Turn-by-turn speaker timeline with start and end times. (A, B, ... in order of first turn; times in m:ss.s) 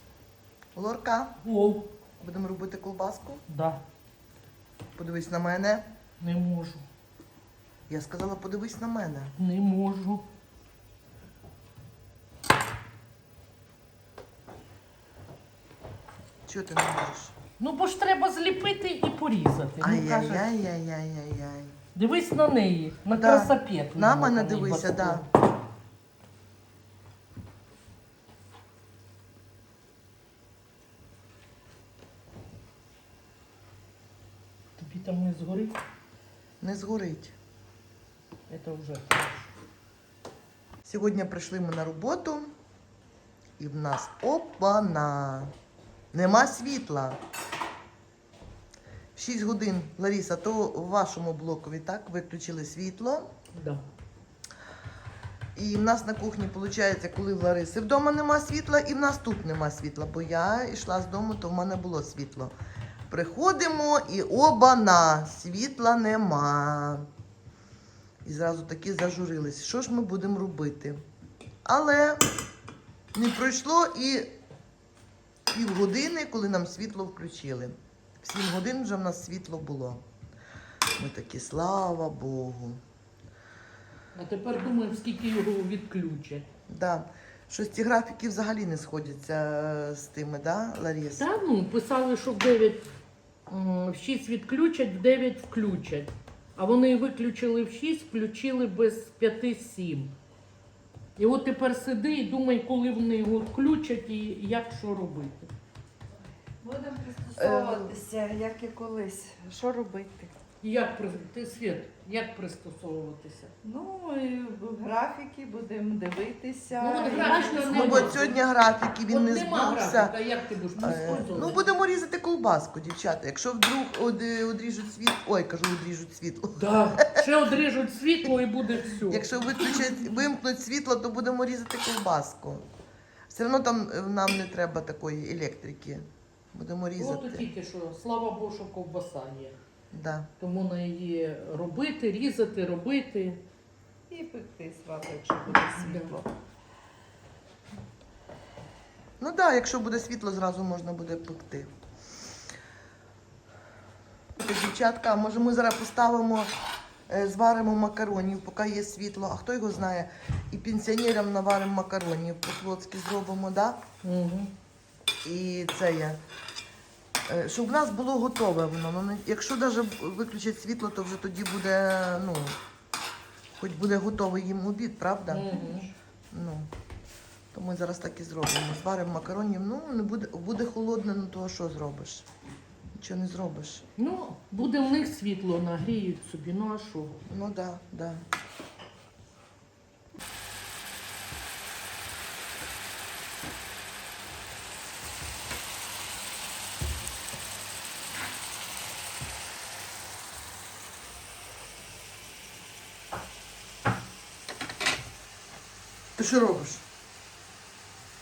0:00.8-0:01.4 A
0:01.4-0:01.9 B
0:02.2-0:03.4 A
0:03.5-0:03.8 B
0:05.0-0:05.9 A
0:06.2-0:06.8 B
0:07.9-0:09.3 A
0:09.4-0:10.3 B
0:16.5-0:17.3 A
0:17.6-0:20.5 B
0:19.8-0:21.8 A
0:22.0-0:25.3 B
0:23.1-0:25.2 A
0:34.8-0:35.8 B
0:36.6-0:37.3 A
0:38.5-0:39.5 B
0:40.8-0:42.5 A
0:43.6-0:45.5 A
0:46.1-0:47.2 A
0:49.2-0:53.3 A
0:53.6-0:53.8 B
0:55.6-1:02.5 A
1:03.1-1:07.1 A
1:08.2-1:11.0 A
1:11.6-1:12.2 A
1:13.1-1:14.4 A
1:15.5-1:20.0 A
1:21.0-1:22.8 A
1:24.1-1:26.5 B
1:26.7-1:31.3 A
1:31.2-1:32.9 B
1:33.5-1:40.1 B
1:41.2-1:45.5 B
1:46.6-1:50.3 C
1:47.4-1:48.0 A
1:50.6-1:53.5 B
1:53.6-1:58.3 C
1:56.8-1:58.4 B
1:57.3-2:00.2 A
1:59.1-2:01.6 B
2:00.8-2:07.3 A
2:06.6-2:09.3 B
2:09.0-2:12.7 A
2:13.3-2:17.5 A
2:17.0-2:19.6 B
2:19.9-2:20.3 A
2:20.4-2:23.4 B
2:24.1-2:26.3 C
2:25.7-2:26.2 B
2:29.2-2:31.7 A
2:34.4-2:36.5 A
2:37.1-2:43.8 A
2:44.0-2:44.5 B
2:45.2-2:46.2 A
2:47.3-2:52.6 A
2:53.5-2:56.7 A
2:55.3-2:55.9 B
2:57.5-3:02.3 A
3:03.0-3:03.8 A
3:04.0-3:07.2 B
3:07.3-3:08.2 A
3:26.2-3:26.8 A